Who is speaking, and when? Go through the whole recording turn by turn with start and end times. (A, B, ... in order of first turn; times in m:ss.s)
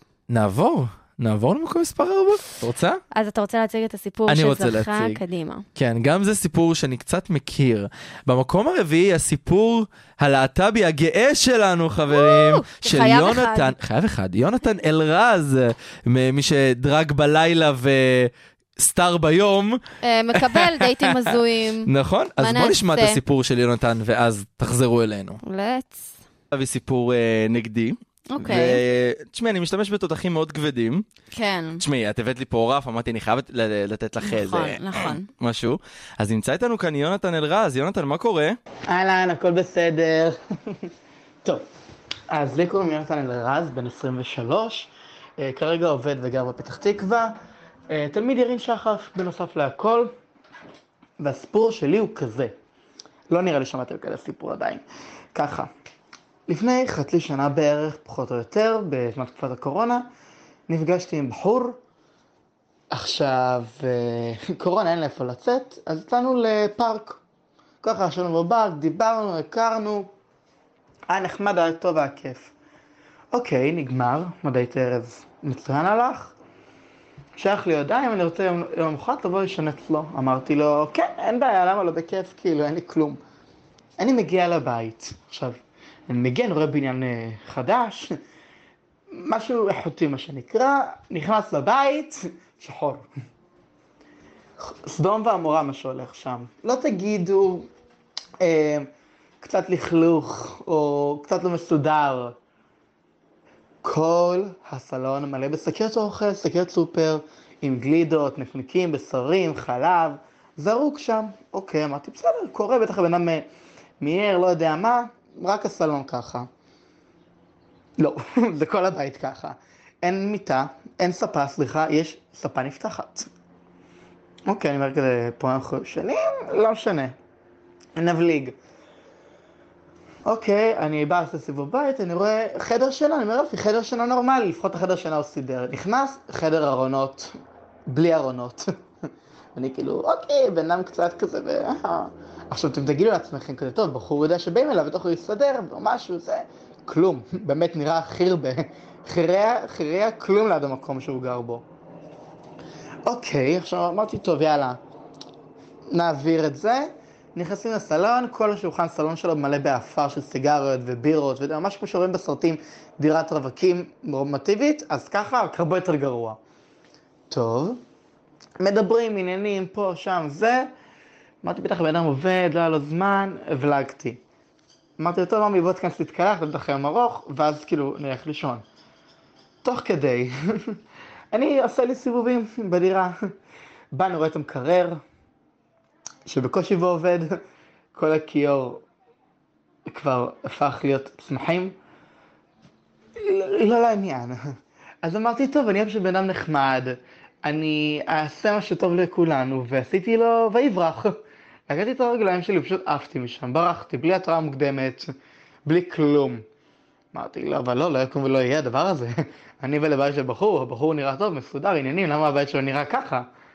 0:00.3-0:03.0 A
0:03.1-0:05.6 B
0:04.3-0:05.2 A
0:05.8-0:19.8 A
0:12.1-0:13.7 B
0:20.0-0:23.2 B
0:20.4-0:25.4 A
0:25.4-0:26.1 B
0:26.5-0:31.0 A
0:28.3-0:28.8 B
0:31.3-0:31.8 B
0:31.8-0:38.6 A
0:34.2-0:35.3 B
0:38.9-0:40.4 C
0:42.3-0:47.4 C
0:47.9-0:50.1 C
0:51.2-0:52.5 C
0:53.3-0:54.8 C
0:55.4-0:55.7 C
0:56.5-1:00.1 C
1:00.7-1:01.8 C
1:02.9-1:07.2 C
1:07.8-1:10.1 C
1:11.1-1:12.5 C
1:13.3-1:16.3 C
1:17.4-1:23.2 C
1:24.0-1:28.2 C
1:29.1-1:33.1 C
1:34.6-1:37.7 C
1:38.4-1:38.9 C
1:39.4-1:42.4 C
1:43.8-1:53.4 C
1:54.0-1:56.5 C
1:58.0-2:03.3 C
2:04.5-2:07.2 C
2:08.0-2:08.6 C
2:10.3-2:17.3 C
2:17.9-2:18.7 C
2:19.6-2:31.6 C
2:33.0-2:34.8 C
2:35.9-2:46.4 C
2:47.3-2:47.8 C
2:48.6-2:50.7 C
2:51.4-2:54.2 C
2:55.0-2:58.6 C
2:59.6-3:00.3 C
3:01.3-3:03.1 C
3:03.9-3:05.0 C
3:06.3-3:07.4 C
3:07.9-3:08.8 C
3:09.9-3:11.7 C
3:13.2-3:21.2 C
3:21.7-3:25.1 C
3:25.7-3:26.4 C
3:27.1-3:33.3 C